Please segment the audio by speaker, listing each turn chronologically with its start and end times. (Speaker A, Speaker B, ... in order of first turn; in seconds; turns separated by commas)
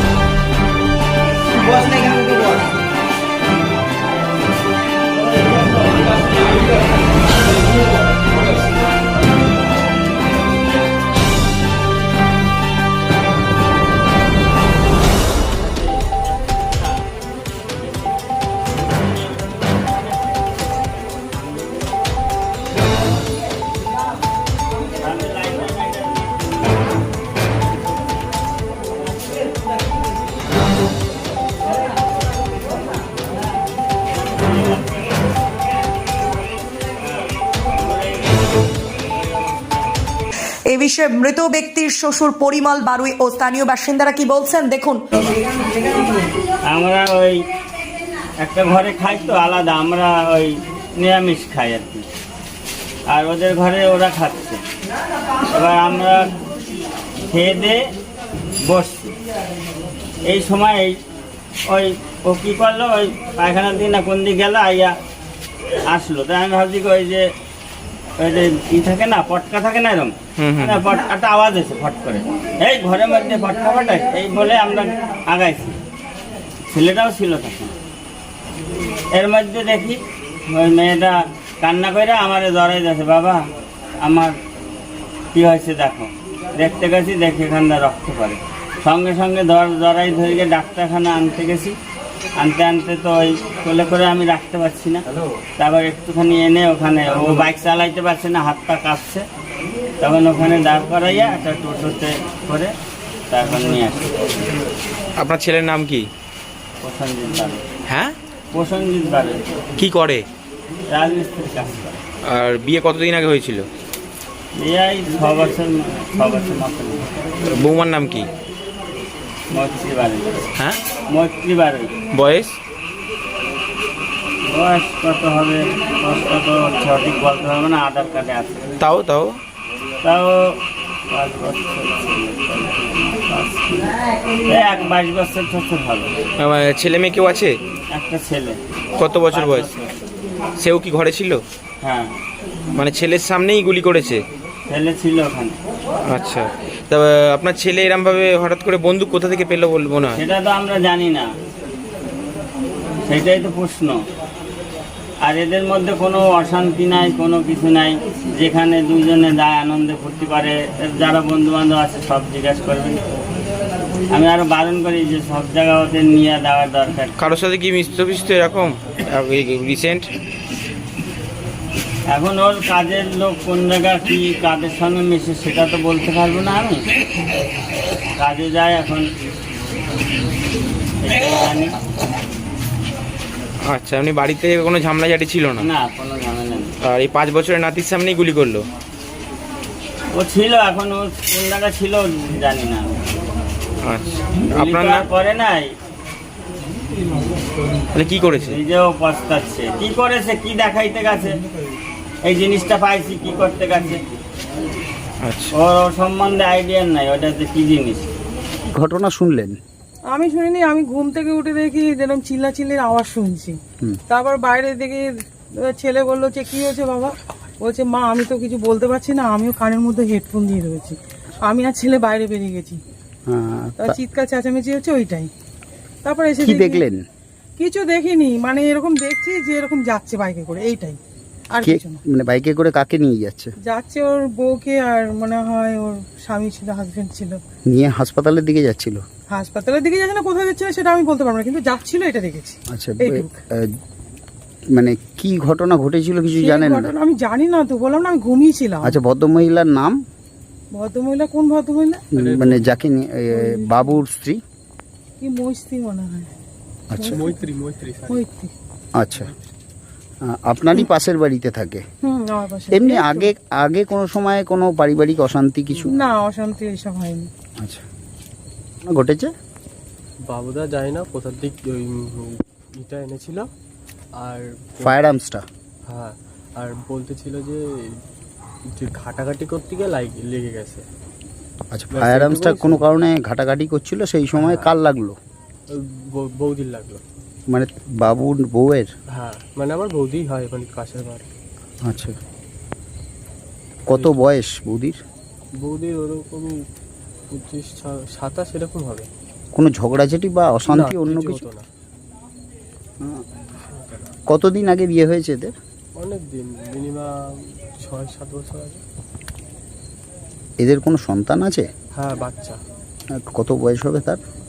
Speaker A: 16.0-17.0, Speaker A: 17.9-18.1, Speaker A: 18.8-21.8, Speaker A: 25.0-26.9, Speaker A: 34.2-35.0, Speaker A: 37.0-38.6, Speaker B: 40.7-45.0, Speaker A: 46.6-47.4, Speaker A: 48.4-52.0, Speaker A: 53.1-54.6, Speaker A: 55.5-56.3, Speaker A: 57.3-57.8, Speaker A: 58.7-59.1, Speaker A: 60.2-61.0, Speaker A: 61.7-65.0, Speaker A: 65.9-67.3, Speaker A: 68.2-75.8, Speaker C: 70.4-70.7, Speaker A: 76.7-77.7, Speaker A: 79.1-83.4, Speaker A: 84.0-84.3, Speaker A: 85.3-91.8, Speaker A: 92.4-95.0, Speaker A: 95.6-99.2, Speaker A: 100.0-102.7, Speaker A: 103.3-104.2, Speaker C: 105.2-106.1, Speaker A: 106.8-107.6, Speaker C: 107.9-108.1, Speaker A: 108.5-109.4, Speaker C: 109.8-110.2, Speaker A: 110.9-112.0, Speaker C: 112.2-113.7, Speaker A: 114.6-117.1, Speaker C: 117.5-118.3, Speaker A: 119.5-120.5, Speaker A: 121.1-121.9, Speaker C: 122.1-122.6, Speaker A: 124.5-128.7, Speaker C: 128.8-129.4, Speaker A: 130.0-130.6, Speaker A: 131.1-133.9, Speaker A: 134.4-136.2, Speaker C: 136.4-137.5, Speaker A: 137.9-138.6, Speaker C: 139.0-139.7, Speaker A: 139.3-140.0, Speaker C: 140.6-141.4, Speaker A: 141.8-142.1, Speaker C: 142.7-144.2, Speaker A: 144.7-145.6, Speaker C: 146.1-150.2, Speaker A: 150.1-151.3, Speaker A: 153.1-154.0, Speaker A: 155.2-163.0, Speaker A: 164.1-167.1, Speaker C: 167.2-170.1, Speaker A: 172.1-176.8, Speaker A: 178.2-179.1, Speaker A: 181.0-181.7, Speaker C: 183.7-185.7, Speaker A: 185.6-186.7, Speaker C: 186.8-188.7, Speaker A: 190.1-192.9, Speaker C: 193.8-195.1, Speaker A: 194.5-195.7, Speaker C: 197.9-198.6, Speaker A: 198.4-201.4, Speaker A: 202.2-204.0, Speaker C: 205.2-205.5, Speaker A: 205.5-208.1, Speaker D: 208.7-209.6, Speaker E: 210.1-222.8, Speaker D: 223.3-224.0, Speaker E: 223.8-225.3, Speaker E: 226.0-226.8, Speaker D: 226.4-227.0, Speaker E: 227.6-232.0, Speaker D: 231.6-233.5, Speaker E: 233.6-237.4, Speaker D: 237.7-239.0, Speaker E: 239.3-243.4, Speaker D: 242.7-243.7, Speaker D: 244.7-246.9, Speaker E: 246.4-249.0, Speaker D: 248.9-250.0, Speaker E: 250.7-252.1, Speaker F: 252.1-252.8, Speaker D: 252.1-254.4, Speaker E: 253.3-254.0, Speaker E: 255.2-256.3, Speaker D: 256.9-257.2, Speaker E: 256.9-257.5, Speaker F: 257.1-258.2, Speaker E: 258.1-258.5, Speaker D: 258.9-259.3, Speaker D: 260.2-261.8, Speaker E: 262.0-263.3, Speaker D: 262.7-265.9, Speaker E: 265.9-267.3, Speaker D: 268.8-269.3, Speaker F: 270.2-273.5, Speaker F: 274.2-275.0, Speaker D: 274.8-275.4, Speaker F: 275.9-278.0, Speaker F: 278.7-280.8, Speaker D: 281.7-285.2, Speaker F: 281.9-282.9, Speaker F: 284.3-284.7, Speaker F: 285.7-287.0, Speaker D: 287.5-288.9, Speaker F: 289.1-291.2, Speaker D: 291.8-292.1, Speaker D: 293.9-295.0, Speaker F: 293.9-294.2, Speaker F: 295.6-296.6, Speaker F: 297.3-299.1, Speaker D: 299.5-301.4, Speaker F: 300.7-301.7, Speaker F: 303.6-304.1, Speaker D: 304.3-305.5, Speaker F: 305.9-308.8, Speaker D: 310.6-311.6, Speaker F: 311.9-312.6, Speaker D: 313.1-314.2